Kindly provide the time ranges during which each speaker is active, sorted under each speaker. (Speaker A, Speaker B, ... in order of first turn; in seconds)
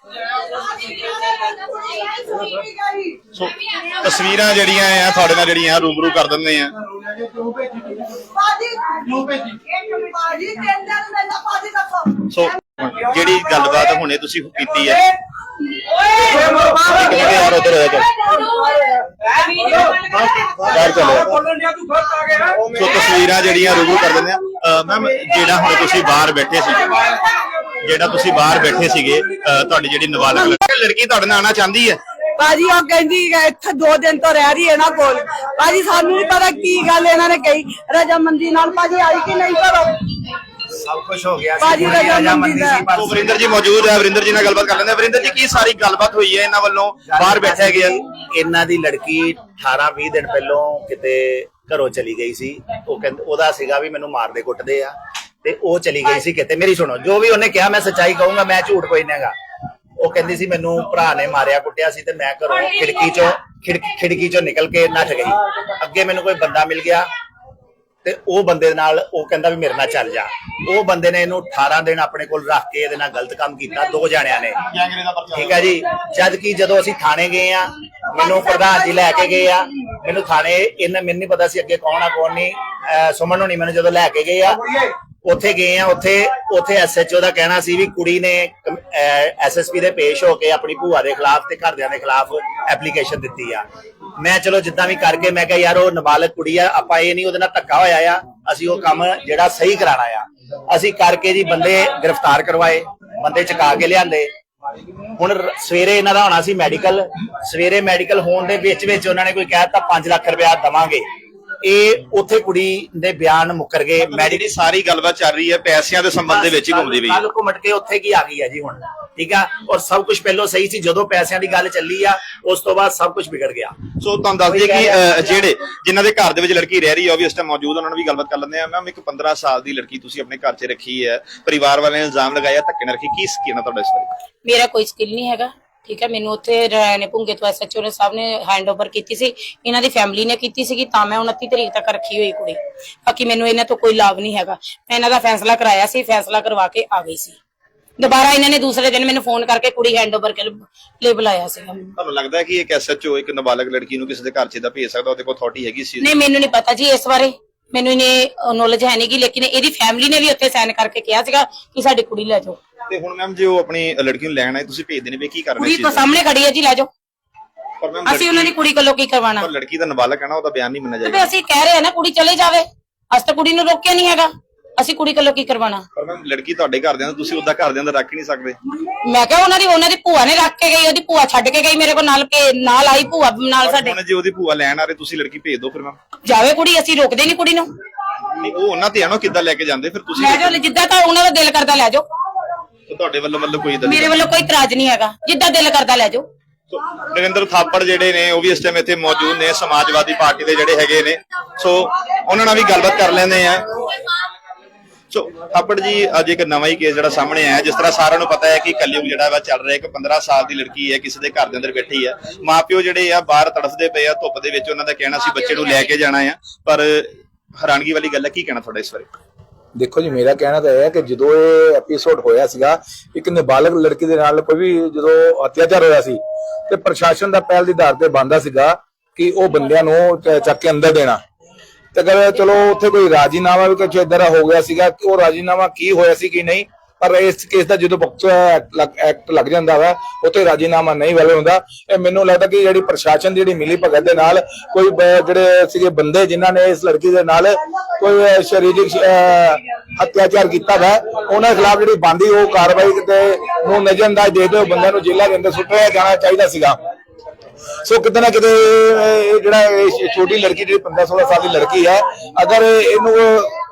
Speaker A: 0.5-3.2, 8.3-12.2, 32.4-40.0, 41.6-42.8
Speaker B: 3.3-6.7, 12.3-15.0, 16.3-18.2, 20.6-21.3, 22.7-27.2, 27.8-32.0, 42.9-48.0, 74.7-75.7, 114.0-117.2, 124.0-134.1, 152.0-156.2, 162.9-166.2, 167.8-168.6, 169.4-171.3, 175.9-178.6, 183.6-186.0, 188.4-190.6, 192.9-194.3, 196.7-203.8, 205.1-219.1
Speaker C: 40.7-43.5, 47.1-59.3, 60.0-67.0, 68.0-74.6, 75.3-84.7, 85.2-93.6, 94.2-104.3, 105.2-111.0, 111.6-114.5, 116.3-123.8, 124.5-125.4
Speaker D: 134.4-147.3, 148.0-151.9, 156.0-162.6, 165.6-166.9, 168.1-169.5, 171.0-175.8, 179.0-184.0, 186.2-187.7, 190.1-192.0, 193.8-196.2
Speaker E: 219.8-226.2, 226.7-231.2, 231.9-256.8, 257.8-263.5